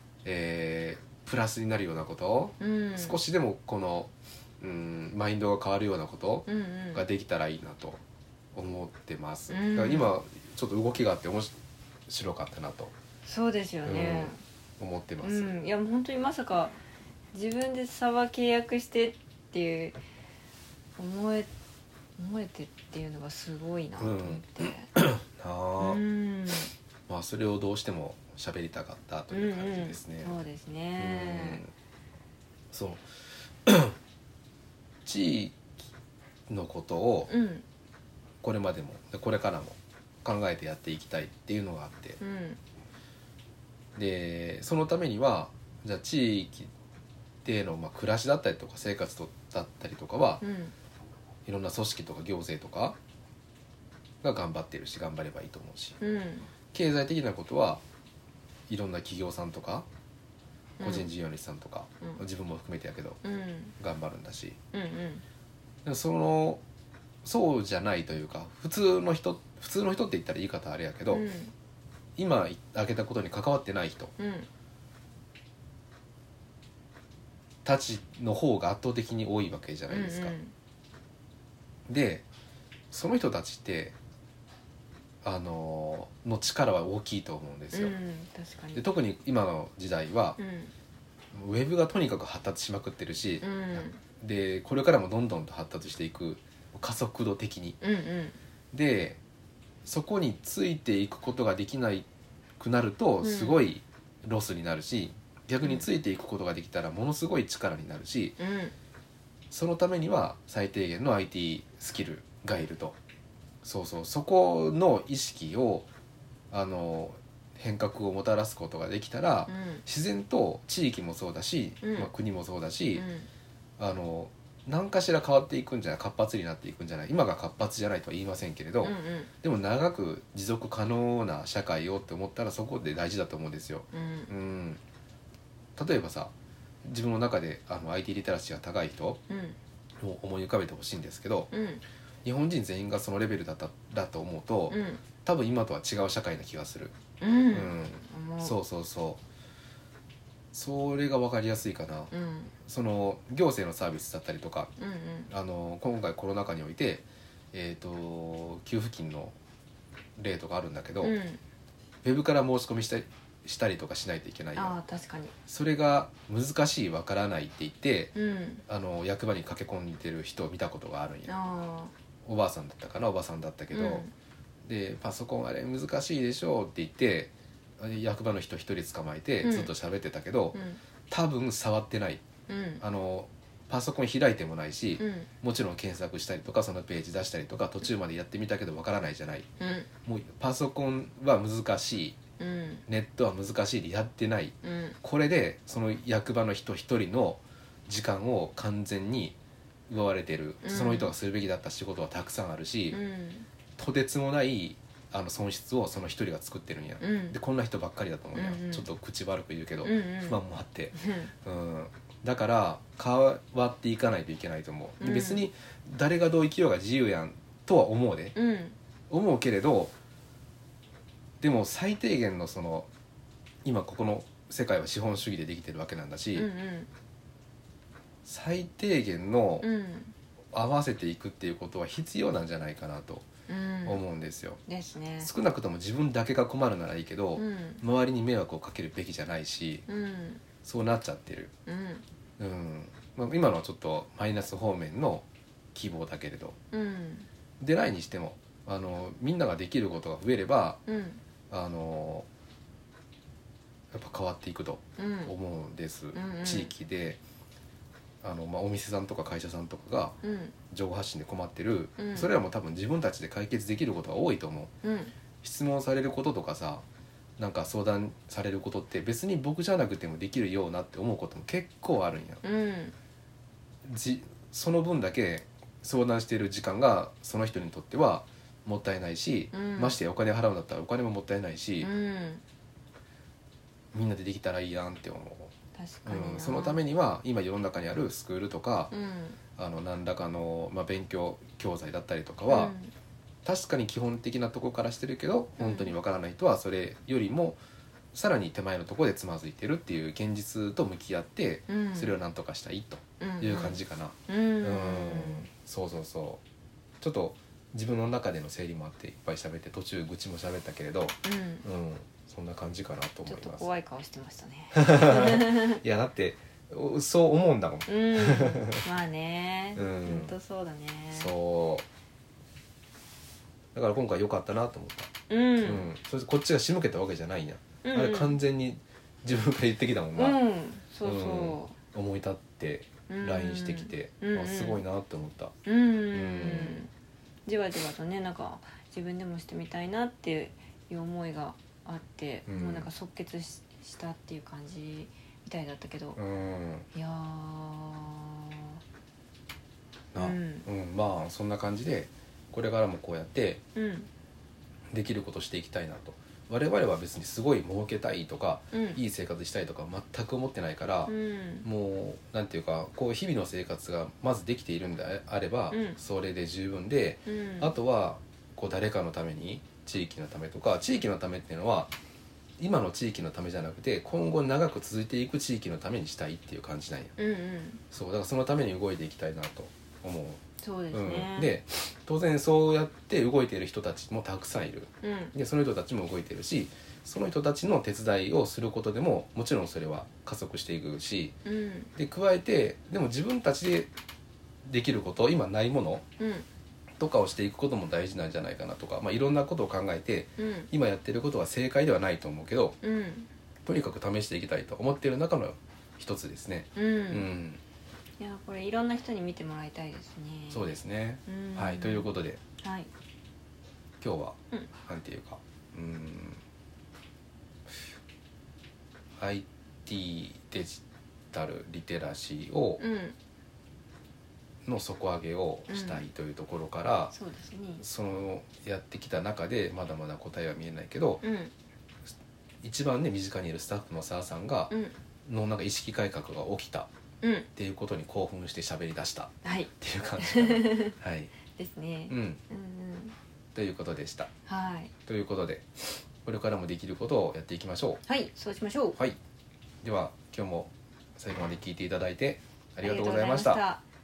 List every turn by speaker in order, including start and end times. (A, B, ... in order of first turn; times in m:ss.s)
0:00.2-0:08.0 A
0:02.6-0:03.2 B
0:06.5-0:07.0 B
0:08.6-0:11.5 A
0:09.5-0:10.1 B
0:12.1-0:12.9 A
0:13.2-0:14.4 B
0:13.8-0:15.6 A
0:15.2-0:16.8 B
0:17.3-0:20.0 B
0:21.0-0:21.5 B
0:22.2-0:24.9 B
0:24.0-0:26.0 A
0:25.8-0:26.7 B
0:27.1-0:30.4 A
0:29.3-0:31.6 B
0:31.0-0:31.7 A
0:32.7-0:33.0 A
0:33.7-0:34.0 A
0:35.0-0:35.7 A
0:36.5-0:37.3 A
0:37.3-0:37.6 B
0:38.4-0:42.2 A
0:42.2-0:42.6 B
0:44.0-0:46.7 A
0:47.4-0:50.4 A
0:50.4-0:50.7 B
0:51.5-0:53.0 A
0:54.2-0:56.0 A
0:56.0-0:56.5 B
0:56.7-0:57.8 A
0:58.7-0:59.9 A
1:00.8-1:01.1 B
1:00.8-1:03.2 A
1:03.2-1:03.7 B
1:03.8-1:04.6 A
1:04.7-1:05.2 B
1:05.8-1:06.6 A
1:07.2-1:11.3 A
1:11.1-1:11.5 B
1:12.2-1:14.1 A
1:14.2-1:14.5 B
1:17.6-1:20.3 A
1:19.9-1:20.5 B
1:21.9-1:22.2 A
1:22.9-1:24.0 A
1:25.2-1:28.0 A
1:27.7-1:28.8 B
1:28.8-1:30.4 A
1:30.4-1:30.7 B
1:31.3-1:37.8 A
1:33.4-1:34.0 B
1:37.8-1:38.4 B
1:38.7-1:39.2 A
1:39.8-1:42.1 A
1:42.6-1:48.4 A
1:43.2-1:43.6 B
1:48.4-1:48.7 B
1:49.5-1:53.0 A
1:53.6-1:55.9 A
1:56.5-2:03.1 A
1:59.5-1:59.8 B
2:01.8-2:02.1 B
2:03.0-2:03.3 B
2:03.8-2:14.8 A
2:08.8-2:09.3 B
2:13.9-2:14.3 B
2:15.8-2:16.3 A
2:16.8-2:19.2 A
2:19.3-2:19.6 B
2:20.0-2:21.5 A
2:21.5-2:21.8 B
2:22.2-2:27.0 A
2:24.7-2:25.0 B
2:27.2-2:28.5 B
2:27.5-2:29.2 A
2:30.5-2:32.1 A
2:32.1-2:32.5 B
2:32.6-2:34.7 A
2:34.8-2:35.3 B
2:35.3-2:39.4 A
2:40.2-2:41.2 A
2:41.0-2:41.4 B
2:42.0-2:44.8 A
2:44.6-2:45.3 B
2:45.5-2:48.2 A
2:48.1-2:48.6 B
2:48.7-2:51.4 A
2:51.3-2:51.9 B
2:52.3-2:54.1 A
2:53.7-2:54.1 B
2:54.7-3:00.6 A
2:59.4-2:59.7 B
3:00.5-3:00.8 B
3:01.1-3:02.2 A
3:02.5-3:02.8 B
3:02.8-3:09.5 A
3:05.0-3:05.3 B
3:09.6-3:09.9 B
3:10.0-3:12.2 A
3:12.4-3:12.8 B
3:12.9-3:19.4 A
3:14.6-3:15.0 B
3:19.9-3:23.0 A
3:20.6-3:21.1 B
3:22.9-3:23.5 B
3:23.8-3:38.4 A
3:27.0-3:27.4 B
3:28.3-3:28.9 B
3:29.8-3:30.4 B
3:30.9-3:31.3 B
3:35.0-3:35.4 B
3:38.3-3:38.8 B
3:39.1-3:39.9 A
3:41.4-3:42.9 A
3:43.6-3:46.5 A
3:46.4-3:46.9 B
3:48.2-3:49.7 A
3:49.6-3:50.1 B
3:50.5-3:53.3 A
3:53.5-3:54.0 B
3:53.8-3:54.6 A
3:54.7-3:55.3 B
3:55.2-3:59.9 A
3:57.4-3:57.8 B
3:59.9-4:00.4 B
4:00.6-4:01.5 A
4:01.7-4:02.0 B
4:02.4-4:06.6 A
4:06.7-4:07.3 B
4:07.6-4:10.8 A
4:10.9-4:11.2 B
4:11.5-4:12.3 A
4:13.9-4:17.2 A
4:15.0-4:15.3 B
4:16.1-4:16.7 B
4:18.2-4:20.2 A
4:20.2-4:20.6 B
4:20.7-4:24.7 A
4:22.0-4:22.3 B
4:24.8-4:25.1 B
4:25.4-4:26.8 A
4:27.4-4:32.4 A
4:32.4-4:32.9 B
4:33.8-4:41.9 A
4:39.5-4:40.0 B
4:41.8-4:42.4 B
4:43.9-4:45.5 A
4:45.7-4:46.8 B
4:46.0-4:48.9 A
4:48.9-4:49.4 B
4:49.6-4:52.7 A
4:52.5-4:52.9 B
4:53.4-4:57.6 A
4:55.6-4:55.9 B
4:58.1-5:06.4 A
5:01.7-5:02.2 B
5:03.2-5:05.5 B
5:07.0-5:13.7 A
5:11.2-5:11.7 B
5:13.2-5:15.8 B
5:14.7-5:18.8 A
5:17.9-5:21.3 B
5:19.8-5:20.3 A
5:21.1-5:21.8 A
5:23.8-5:25.1 A
5:25.3-5:25.9 B
5:25.6-5:30.4 A
5:27.8-5:28.4 B
5:30.2-5:31.8 B
5:31.0-5:35.5 A
5:33.1-5:34.8 B
5:35.6-5:36.9 B
5:36.1-5:36.9 A
5:37.5-5:46.2 B
5:42.5-5:42.9 A
5:46.2-5:46.9 A
5:46.9-5:48.8 B
5:50.1-5:53.6 A
5:50.2-5:50.7 B
5:53.8-5:54.1 B
5:54.9-6:11.9 A
5:58.7-5:59.0 B
6:01.1-6:01.7 B
6:05.7-6:06.0 B
6:07.3-6:07.7 B
6:12.6-6:17.1 A
6:17.2-6:17.8 B
6:17.9-6:20.4 A
6:20.6-6:21.5 B
6:20.9-6:31.3 A
6:25.0-6:25.3 B
6:31.4-6:31.9 B
6:32.0-6:33.9 A
6:34.7-6:36.0 A
6:36.2-6:36.5 B
6:37.0-6:42.8 A
6:40.4-6:40.7 B
6:42.8-6:43.3 B
6:43.6-6:47.6 A
6:46.8-6:47.3 B
6:48.2-6:50.7 B
6:50.5-6:52.4 A
6:51.3-6:52.9 B
6:54.0-6:56.4 A
6:59.2-7:02.8 A
7:02.8-7:03.2 B
7:04.6-7:07.1 A
7:05.7-7:06.0 B
7:07.1-7:07.8 B
7:07.8-7:11.2 A
7:11.2-7:11.5 B
7:12.6-7:16.9 A
7:14.7-7:15.0 B
7:17.2-7:17.5 B
7:17.6-7:21.3 A
7:19.4-7:21.0 B
7:21.6-7:23.2 B
7:22.1-7:22.4 A
7:23.6-7:24.3 A
7:24.5-7:24.9 B
7:25.1-7:28.0 A
7:28.1-7:29.0 B
7:29.8-7:33.6 A
7:32.8-7:33.8 B